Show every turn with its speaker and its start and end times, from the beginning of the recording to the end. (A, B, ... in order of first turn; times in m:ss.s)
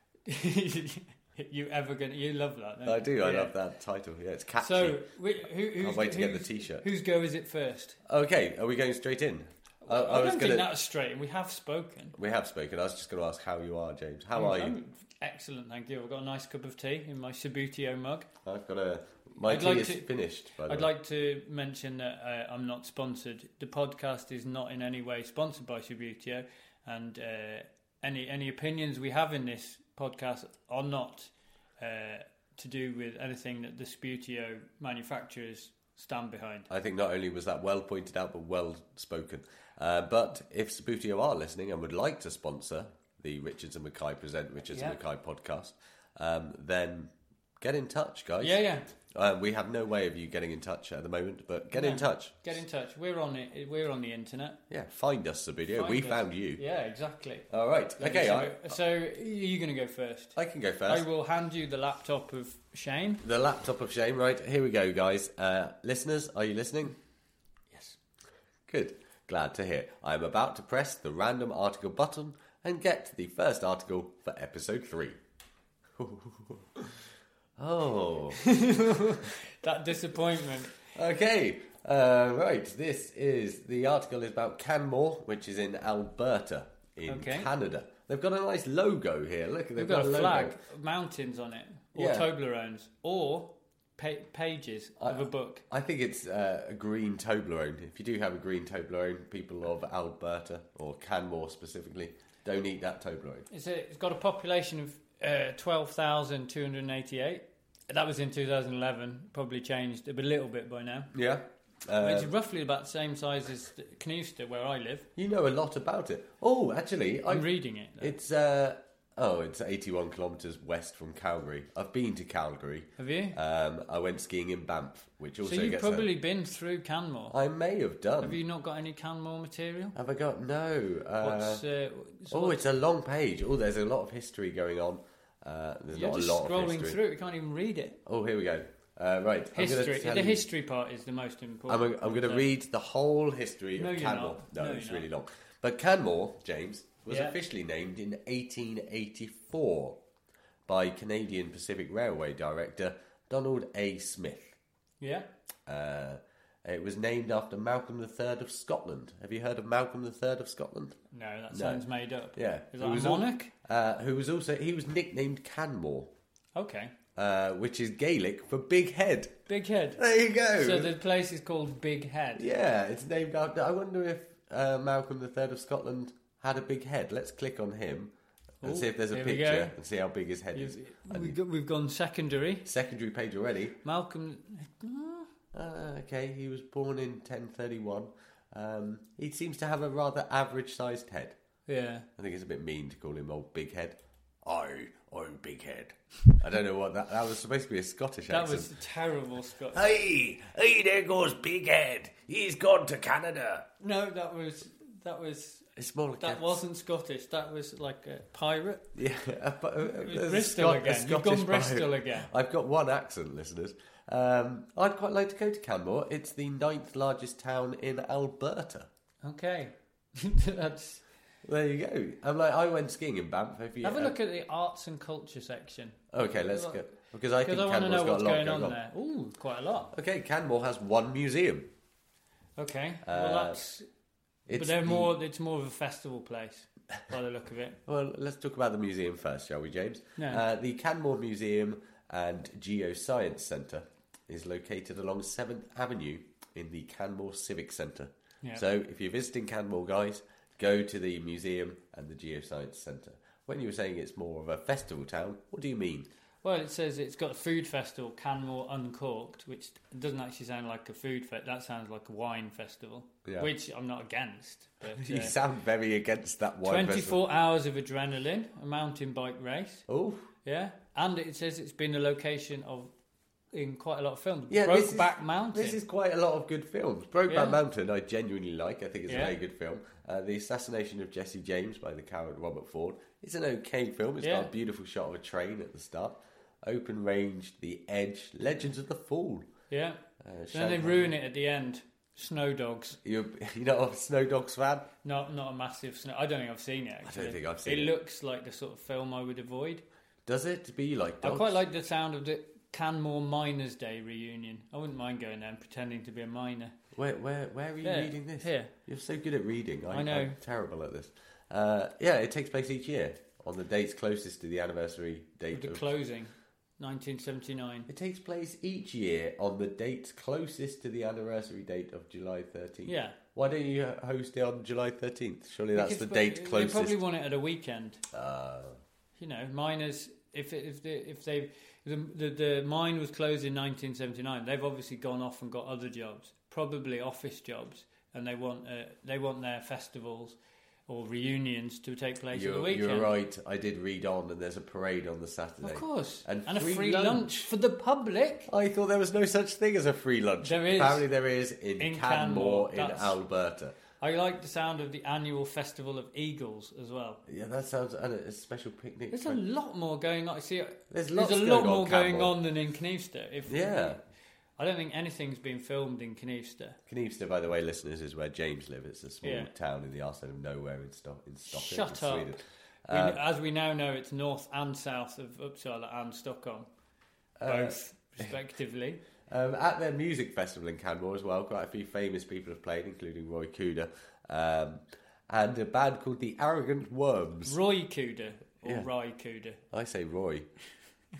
0:00.2-0:03.5 A
0:02.8-0:05.1 B
0:04.6-0:08.0 A
0:05.7-0:06.9 B
0:08.1-0:10.7 B
0:09.8-0:12.2 A
0:12.2-0:14.7 B
0:14.4-0:18.3 A
0:18.4-0:20.9 B
0:19.5-0:20.1 A
0:20.7-0:36.7 A
0:36.7-0:52.4 B
0:44.7-0:45.0 A
0:48.4-0:48.8 A
0:51.7-0:54.6 A
0:54.7-0:56.6 B
0:55.8-1:03.2 A
0:57.5-0:58.6 B
1:00.4-1:01.1 B
1:03.2-1:06.9 B
1:08.7-1:15.2 B
1:16.0-1:16.8 B
1:17.6-1:18.4 B
1:18.4-1:20.8 A
1:20.9-1:30.6 B
1:27.1-1:27.5 A
1:29.8-1:35.6 A
1:31.9-1:32.3 B
1:35.0-1:43.4 B
1:43.5-1:51.1 A
1:51.1-1:52.3 B
1:52.0-1:55.1 A
1:55.2-2:06.1 B
1:57.3-1:58.2 A
2:03.0-2:03.4 A
2:05.4-2:07.4 A
2:07.3-2:08.4 B
2:08.2-2:09.9 A
2:09.9-2:11.6 B
2:11.2-2:12.6 A
2:12.3-2:17.0 B
2:15.9-2:18.0 A
2:18.0-2:20.4 B
2:19.5-2:22.5 A
2:21.7-2:30.0 B
2:23.8-2:25.1 A
2:27.1-2:27.4 A
2:30.7-2:34.6 B
2:35.0-2:35.3 A
2:35.6-2:41.0 B
2:41.1-2:43.5 A
2:41.5-2:46.1 B
2:46.5-2:46.9 A
2:47.2-2:49.4 B
2:49.5-2:50.0 A
2:50.0-2:50.9 B
2:50.6-2:52.5 A
2:52.4-3:01.4 B
2:58.6-2:59.7 A
3:00.5-3:02.7 A
3:02.6-3:03.8 B
3:03.8-3:05.3 A
3:05.5-3:11.4 B
3:11.6-3:12.1 A
3:12.2-3:18.7 B
3:18.3-3:19.8 A
3:19.7-3:23.6 B
3:23.8-3:25.7 A
3:25.8-3:26.6 B
3:26.2-3:28.9 A
3:28.9-3:38.9 B
3:29.8-3:32.3 A
3:39.2-3:41.0 A
3:41.4-3:44.1 B
3:43.8-3:46.8 A
3:46.1-3:48.8 B
3:47.4-3:49.9 A
3:49.9-3:51.7 B
3:52.6-3:53.9 A
3:53.0-3:53.6 B
3:54.5-3:55.1 B
3:54.5-3:57.8 A
3:57.8-4:16.1 B
4:00.2-4:00.4 A
4:16.4-4:25.4 A
4:23.2-4:23.5 B
4:24.9-4:27.2 B
4:26.6-4:29.8 A
4:29.9-4:30.3 B
4:30.4-4:32.9 A
4:33.5-4:35.8 A
4:34.5-4:49.4 B
4:37.3-4:37.6 A
4:39.1-4:39.4 A
4:44.2-4:44.5 A
4:49.7-4:50.0 A
4:50.2-4:51.1 B
4:50.5-4:53.0 A
4:53.0-4:54.9 B
4:55.0-4:59.8 A
4:57.0-4:57.9 B
5:00.2-5:01.6 B
5:01.2-5:06.7 A
5:06.9-5:15.9 B
5:07.8-5:08.7 A
5:09.9-5:10.4 A
5:15.5-5:17.9 A
5:17.9-5:27.0 B
5:22.8-5:23.2 A
5:25.7-5:28.0 A
5:28.1-5:28.8 B
5:29.2-5:43.1 A
5:42.3-5:47.5 B
5:45.6-5:48.5 A
5:48.5-5:53.8 B
5:50.4-5:51.0 A
5:51.8-5:53.2 A
5:54.0-5:57.2 A
5:57.3-5:59.4 B
5:59.1-6:04.0 A
6:00.9-6:02.4 B
6:03.5-6:04.0 B
6:04.6-6:06.8 A
6:06.9-6:13.2 B
6:09.2-6:09.5 A
6:11.5-6:12.3 A
6:12.9-6:16.7 A
6:17.4-6:18.3 B
6:17.4-6:19.0 A
6:19.3-6:27.6 B
6:27.4-6:29.6 A
6:29.7-6:30.5 B